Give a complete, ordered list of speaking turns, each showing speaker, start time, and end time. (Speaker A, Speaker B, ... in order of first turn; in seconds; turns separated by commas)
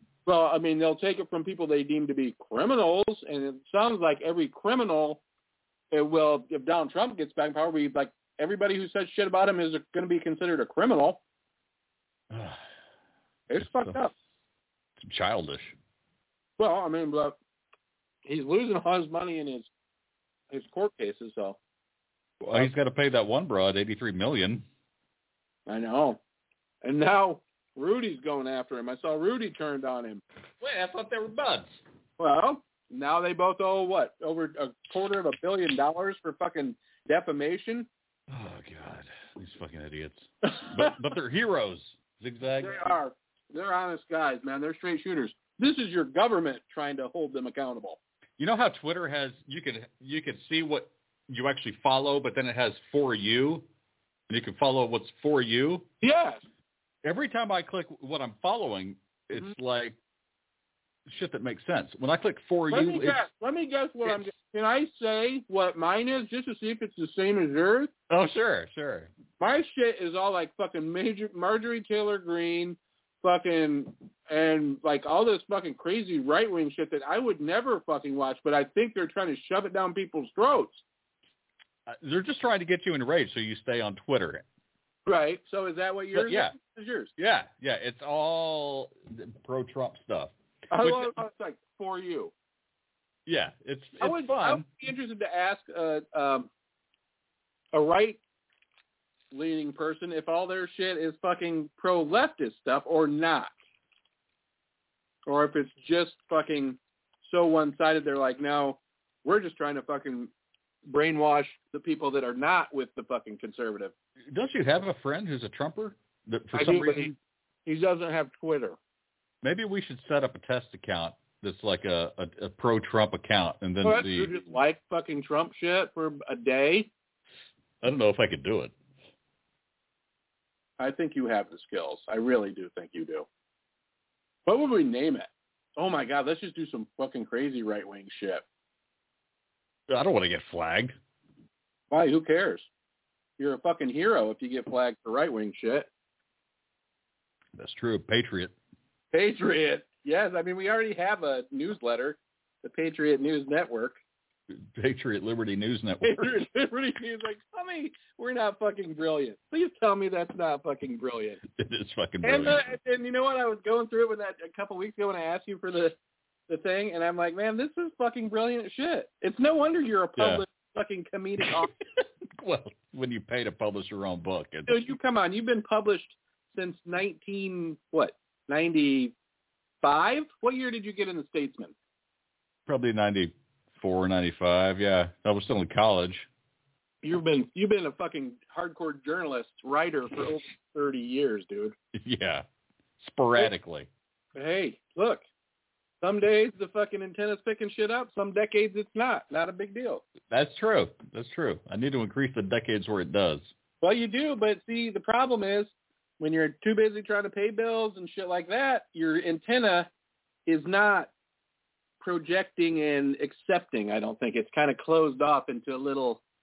Speaker A: 0.3-5.2, Speaker A: 5.9-11.2, Speaker B: 12.3-12.6, Speaker A: 13.5-14.1, Speaker B: 13.6-14.0, Speaker B: 15.0-15.8, Speaker A: 16.6-17.4, Speaker A: 18.2-19.7, Speaker A: 20.5-21.6, Speaker B: 22.4-24.6, Speaker A: 25.7-26.2, Speaker A: 26.8-31.2, Speaker B: 30.6-31.7, Speaker A: 32.2-37.9, Speaker B: 38.3-42.9, Speaker A: 40.5-40.9, Speaker A: 42.6-48.0, Speaker B: 48.4-53.7, Speaker B: 54.3-55.9, Speaker A: 56.0-56.4, Speaker B: 57.0-60.0, Speaker B: 61.1-63.2, Speaker A: 62.7-67.9, Speaker B: 68.1-69.1, Speaker A: 69.4-80.8, Speaker B: 81.9-84.4, Speaker A: 85.1-87.1, Speaker B: 86.1-86.5, Speaker B: 87.2-91.2, Speaker A: 90.7-92.3, Speaker B: 93.3-94.7, Speaker A: 94.0-96.5, Speaker A: 97.7-98.2, Speaker A: 99.3-103.5, Speaker A: 105.3-110.3, Speaker A: 110.9-113.9, Speaker B: 114.3-117.2, Speaker A: 116.5-117.1, Speaker A: 117.7-118.8, Speaker B: 119.4-124.3, Speaker A: 123.8-126.9, Speaker B: 127.8-128.7, Speaker A: 130.8-133.3, Speaker A: 134.5-138.4, Speaker B: 139.9-140.9, Speaker A: 141.9-142.7, Speaker A: 143.4-145.9, Speaker B: 147.6-148.5, Speaker A: 149.1-154.0, Speaker B: 154.8-156.4, Speaker A: 156.0-161.4, Speaker B: 161.6-162.6, Speaker A: 162.2-166.0, Speaker A: 166.5-171.7, Speaker B: 170.2-170.4, Speaker B: 172.4-174.9, Speaker A: 174.7-179.1, Speaker A: 179.8-181.7, Speaker B: 182.7-186.3, Speaker A: 187.0-191.8, Speaker B: 191.9-192.4, Speaker B: 193.0-193.9, Speaker A: 194.3-195.2, Speaker A: 196.0-200.0, Speaker B: 200.3-203.5, Speaker A: 203.8-209.9, Speaker A: 210.5-211.1, Speaker A: 212.0-216.2